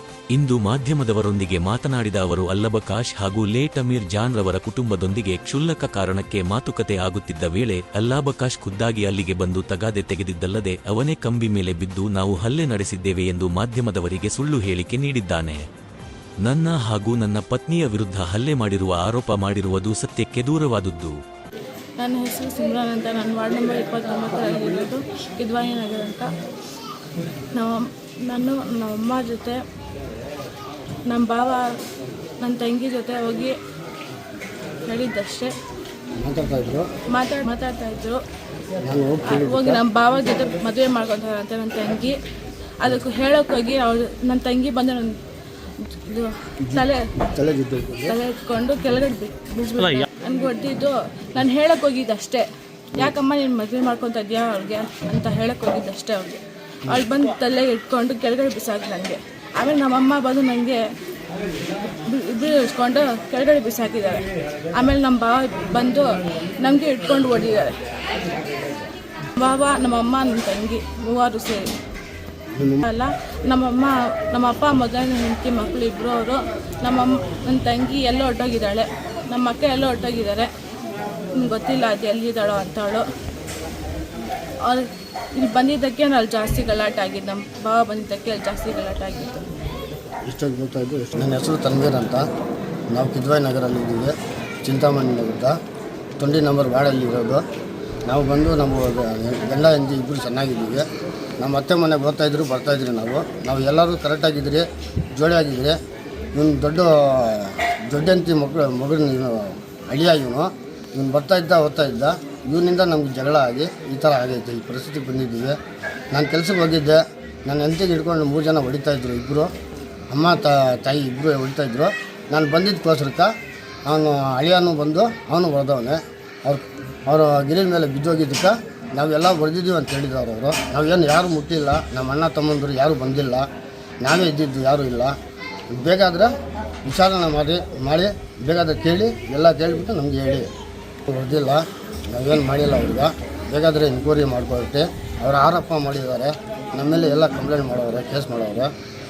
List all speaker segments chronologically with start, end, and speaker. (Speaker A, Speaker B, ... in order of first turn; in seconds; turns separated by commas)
Speaker A: 0.3-15.6, Speaker A: 16.4-21.1, Speaker B: 22.0-26.3, Speaker B: 27.5-29.6, Speaker B: 31.1-31.8, Speaker B: 32.4-33.5, Speaker B: 34.8-35.5, Speaker C: 36.2-36.9, Speaker B: 37.1-38.2, Speaker C: 38.8-39.8, Speaker B: 39.3-42.1, Speaker B: 42.8-45.2, Speaker B: 45.9-47.1, Speaker C: 46.6-48.1, Speaker B: 48.0-60.8, Speaker B: 61.8-67.7, Speaker B: 69.3-71.7, Speaker C: 72.5-72.8, Speaker B: 72.8-80.5, Speaker B: 81.3-83.1, Speaker B: 84.6-89.5, Speaker C: 90.2-92.2, Speaker C: 92.9-95.5, Speaker C: 96.2-97.4, Speaker C: 98.0-100.8, Speaker C: 101.4-105.8, Speaker C: 106.3-115.5, Speaker C: 116.1-119.5, Speaker C: 120.1-123.3, Speaker C: 123.8-133.5, Speaker C: 134.0-135.2, Speaker C: 135.7-136.3, Speaker C: 136.8-140.5, Speaker C: 141.1-148.7